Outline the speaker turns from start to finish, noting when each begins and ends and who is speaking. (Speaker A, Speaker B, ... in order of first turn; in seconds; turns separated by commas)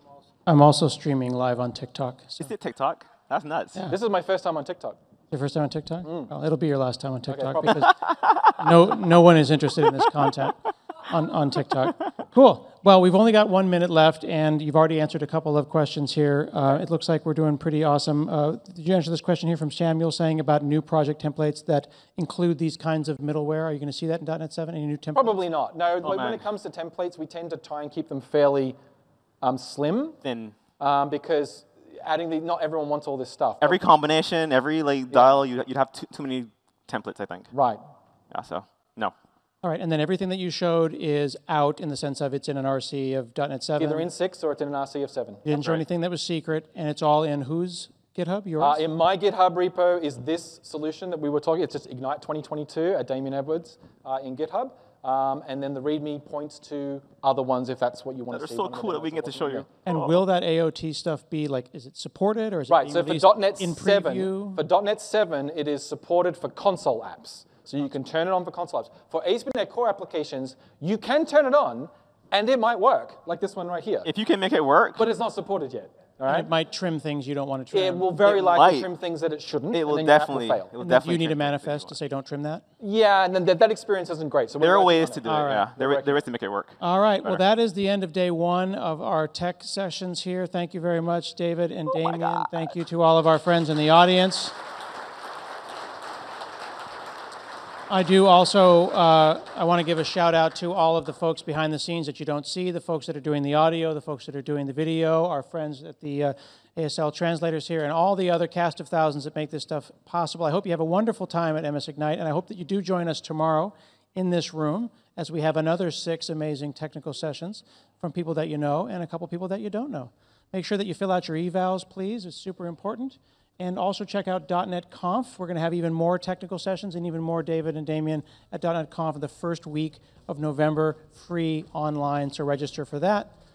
Speaker A: 0.5-2.5, Speaker B: 2.4-3.9, Speaker C: 3.9-5.0, Speaker A: 5.3-25.4, Speaker C: 6.0-6.3, Speaker C: 7.3-7.9, Speaker B: 8.1-8.7, Speaker C: 25.1-28.8, Speaker B: 26.0-26.4, Speaker C: 29.4-30.2, Speaker B: 30.2-30.6, Speaker C: 30.8-33.8, Speaker B: 33.6-37.5, Speaker C: 35.1-35.4, Speaker C: 37.5-37.8, Speaker B: 38.3-39.1, Speaker A: 39.6-44.1, Speaker C: 43.8-45.5, Speaker A: 45.5-48.8, Speaker B: 45.5-45.8, Speaker C: 48.6-59.7, Speaker B: 58.3-60.2, Speaker A: 59.9-64.6, Speaker C: 62.7-74.1, Speaker B: 74.0-75.1, Speaker C: 75.0-76.5, Speaker A: 76.3-78.1, Speaker C: 77.7-80.7, Speaker B: 78.2-78.9, Speaker B: 79.7-82.0, Speaker A: 80.8-82.6, Speaker C: 82.8-86.2, Speaker B: 84.6-87.4, Speaker A: 85.2-85.7, Speaker A: 86.8-94.6, Speaker B: 92.0-92.7, Speaker A: 97.9-133.3